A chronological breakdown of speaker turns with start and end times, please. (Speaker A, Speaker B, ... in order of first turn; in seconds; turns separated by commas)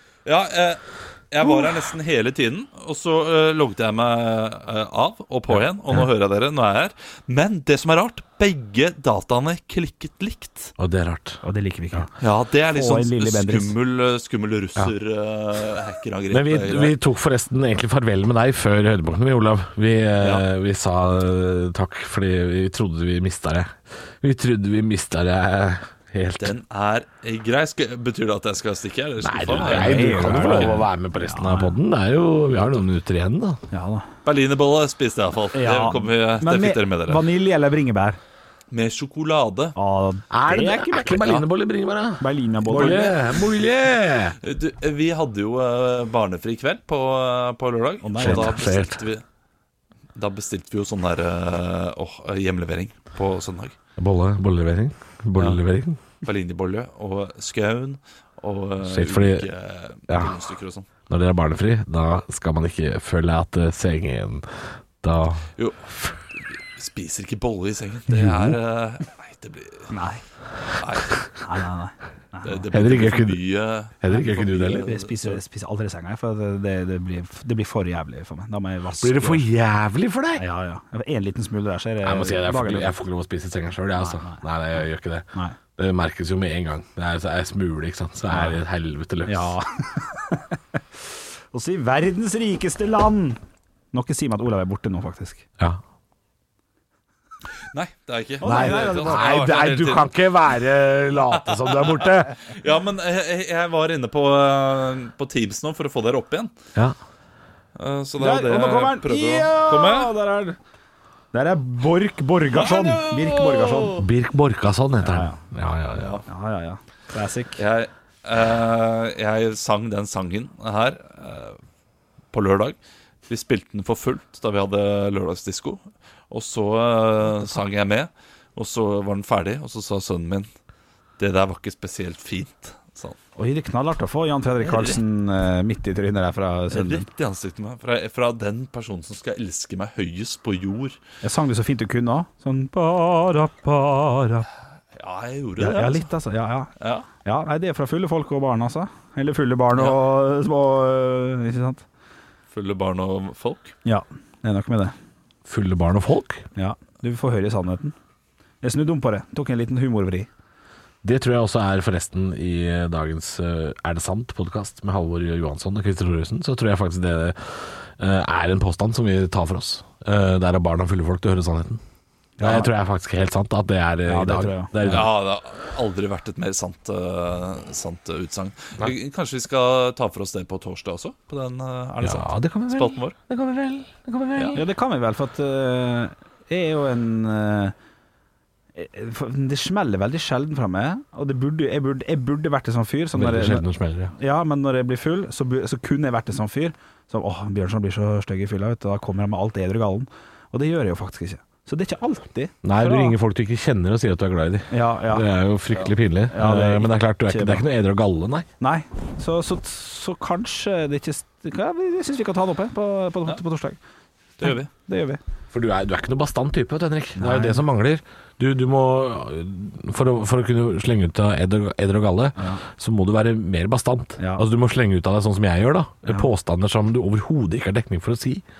Speaker A: 0.2-10.7, Speaker B: 5.5-6.0, Speaker B: 10.8-11.4, Speaker C: 11.4-12.1, Speaker A: 12.2-16.9, Speaker C: 12.7-13.7, Speaker B: 16.3-26.5, Speaker A: 20.2-20.5, Speaker A: 26.4-30.8, Speaker B: 29.2-33.6, Speaker C: 29.6-31.8, Speaker C: 33.7-34.1, Speaker A: 34.2-37.2, Speaker C: 35.5-38.2, Speaker A: 38.7-39.7, Speaker C: 39.8-41.4, Speaker B: 40.3-44.4, Speaker C: 42.2-43.1, Speaker A: 42.7-43.2, Speaker A: 44.4-49.2, Speaker C: 48.0-48.5, Speaker B: 48.2-49.0, Speaker A: 50.1-53.8, Speaker B: 54.0-56.0, Speaker A: 56.2-60.9, Speaker B: 58.8-59.5, Speaker B: 60.1-60.4, Speaker B: 61.1-64.5, Speaker B: 65.0-65.5, Speaker A: 65.6-69.9, Speaker B: 68.1-68.6, Speaker C: 69.9-70.2, Speaker A: 70.8-71.3, Speaker C: 71.3-72.6, Speaker A: 72.4-75.4, Speaker B: 72.7-73.4, Speaker B: 74.0-74.9, Speaker C: 74.8-79.4, Speaker B: 79.0-80.4, Speaker C: 80.4-82.9, Speaker B: 82.0-89.5, Speaker C: 84.0-84.4, Speaker C: 88.3-88.6, Speaker C: 89.2-90.5, Speaker C: 91.5-93.4, Speaker C: 93.9-95.4, Speaker A: 97.7-100.1, Speaker C: 98.4-99.4, Speaker B: 98.4-102.3, Speaker A: 101.4-106.5, Speaker A: 107.8-110.1, Speaker C: 108.2-110.6, Speaker C: 111.3-114.0, Speaker A: 112.5-114.1, Speaker B: 114.0-116.2, Speaker C: 115.0-115.4, Speaker A: 115.9-116.2, Speaker C: 116.3-117.6, Speaker A: 117.6-121.6, Speaker A: 122.3-122.8, Speaker A: 123.3-130.5, Speaker A: 131.2-133.2, Speaker C: 133.4-137.1, Speaker A: 134.6-135.0, Speaker A: 136.7-141.0, Speaker C: 141.2-144.5, Speaker A: 144.9-146.1, Speaker C: 145.6-146.7, Speaker A: 146.8-147.1, Speaker C: 147.2-151.8, Speaker A: 152.5-153.7, Speaker C: 153.8-154.9, Speaker B: 155.5-156.4, Speaker C: 156.5-157.9, Speaker C: 158.6-160.3, Speaker B: 161.0-171.8, Speaker C: 172.4-172.7, Speaker B: 172.4-175.1, Speaker C: 174.1-175.0, Speaker A: 174.9-183.2, Speaker B: 182.0-184.7, Speaker C: 184.5-187.7, Speaker C: 188.8-193.6, Speaker B: 193.1-194.1, Speaker C: 194.1-203.1, Speaker B: 202.6-208.5, Speaker C: 204.7-205.3, Speaker C: 206.3-207.7, Speaker C: 208.6-213.8, Speaker A: 214.4-214.7, Speaker C: 214.4-215.2, Speaker B: 215.5-228.4, Speaker C: 217.2-217.6, Speaker C: 222.4-222.6, Speaker C: 224.2-224.4